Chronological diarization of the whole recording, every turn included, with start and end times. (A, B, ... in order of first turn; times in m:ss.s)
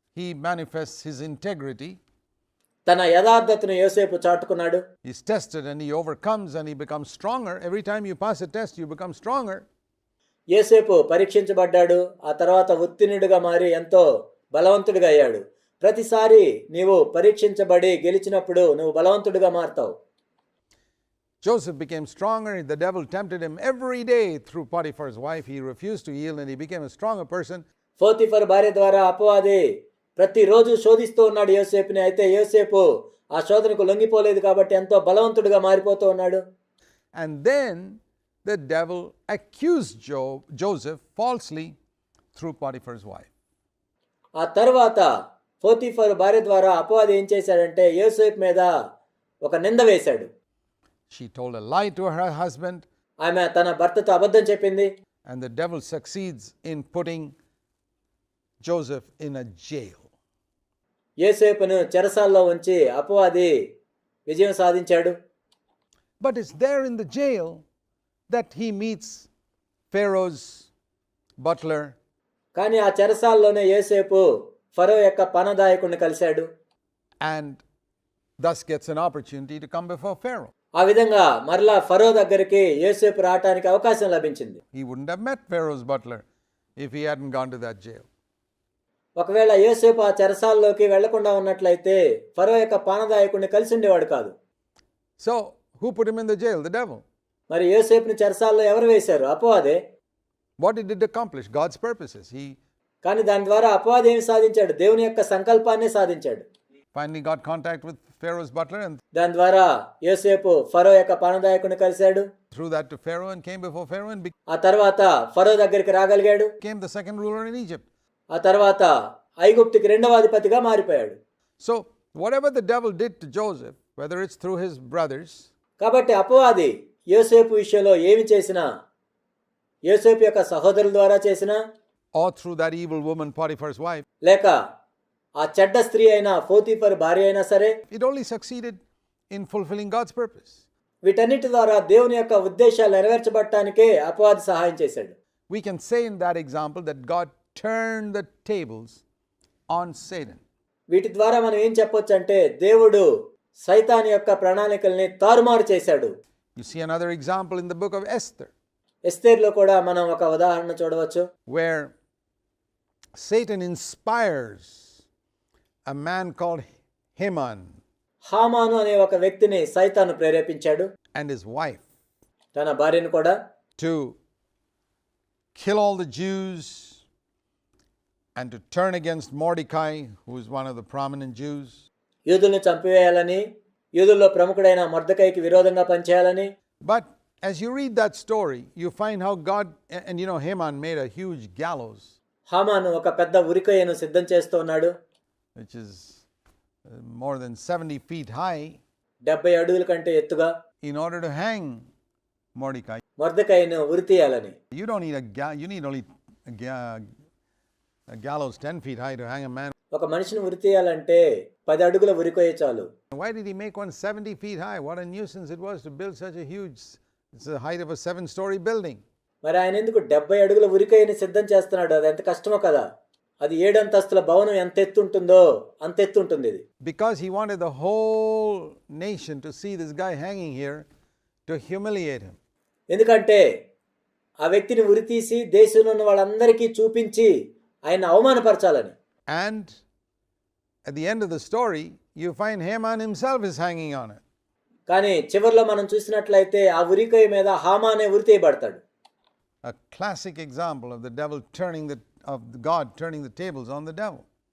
0:00.2-0:02.0 A
0:02.9-0:04.8 B
0:05.0-0:09.6 A
0:10.5-0:19.9 B
0:21.4-0:27.6 A
0:28.0-0:29.6 B
0:30.2-0:36.4 B
0:37.1-0:41.8 A
0:42.3-0:43.3 A
0:44.4-0:45.1 B
0:45.6-0:48.7 B
0:49.4-0:50.3 B
0:51.1-0:52.8 A
0:53.2-0:54.9 B
0:55.3-0:57.3 A
0:58.6-1:00.1 A
1:01.2-1:03.5 B
1:04.3-1:05.1 B
1:06.2-1:07.6 A
1:08.3-1:09.3 A
1:09.9-1:10.7 A
1:11.4-1:12.0 A
1:12.6-1:16.5 B
1:17.2-1:17.6 A
1:18.4-1:20.5 A
1:20.8-1:24.6 B
1:24.7-1:26.2 A
1:26.8-1:28.1 A
1:29.2-1:34.3 B
1:35.2-1:37.0 A
1:37.5-1:39.8 B
1:40.6-1:42.6 A
1:43.0-1:46.4 B
1:47.0-1:49.0 A
1:49.1-1:52.2 B
1:52.5-1:54.3 A
1:54.5-1:56.5 B
1:56.6-1:57.9 A
1:58.3-1:58.9 B
1:59.4-2:01.2 B
2:01.6-2:05.5 A
2:05.8-2:08.6 B
2:09.9-2:11.6 B
2:12.1-2:14.0 A
2:14.2-2:14.6 B
2:15.4-2:17.8 B
2:17.9-2:18.8 A
2:19.3-2:20.6 A
2:21.0-2:25.1 B
2:25.5-2:29.0 A
2:29.7-2:30.4 A
2:30.9-2:33.1 B
2:33.6-2:36.1 B
2:36.6-2:38.5 A
2:39.1-2:41.2 B
2:41.5-2:41.9 A
2:43.2-2:44.9 A
2:45.9-2:47.8 A
2:48.3-2:50.9 B
2:51.1-2:51.8 A
2:52.5-2:53.4 B
2:53.8-2:54.2 A
2:55.6-2:57.0 A
2:58.4-3:01.8 A
3:02.3-3:03.4 B
3:04.0-3:06.5 B
3:06.8-3:12.1 A
3:12.5-3:14.9 B
3:15.6-3:16.2 A
3:16.9-3:18.8 A
3:19.3-3:20.5 B
3:20.8-3:21.9 A
3:22.6-3:23.0 A
3:23.2-3:24.6 B
3:24.7-3:27.1 A
3:28.1-3:29.7 A
3:29.9-3:32.9 B
3:33.1-3:39.0 A
3:39.4-3:42.8 B
3:43.4-3:46.6 B
3:46.8-3:50.9 A
3:51.5-3:52.4 A
3:52.9-3:53.4 B
3:54.4-3:57.3 B
3:57.9-3:58.9 B
3:59.3-3:59.7 A
4:00.9-4:04.2 A
4:04.9-4:08.8 B
4:09.6-4:14.3 A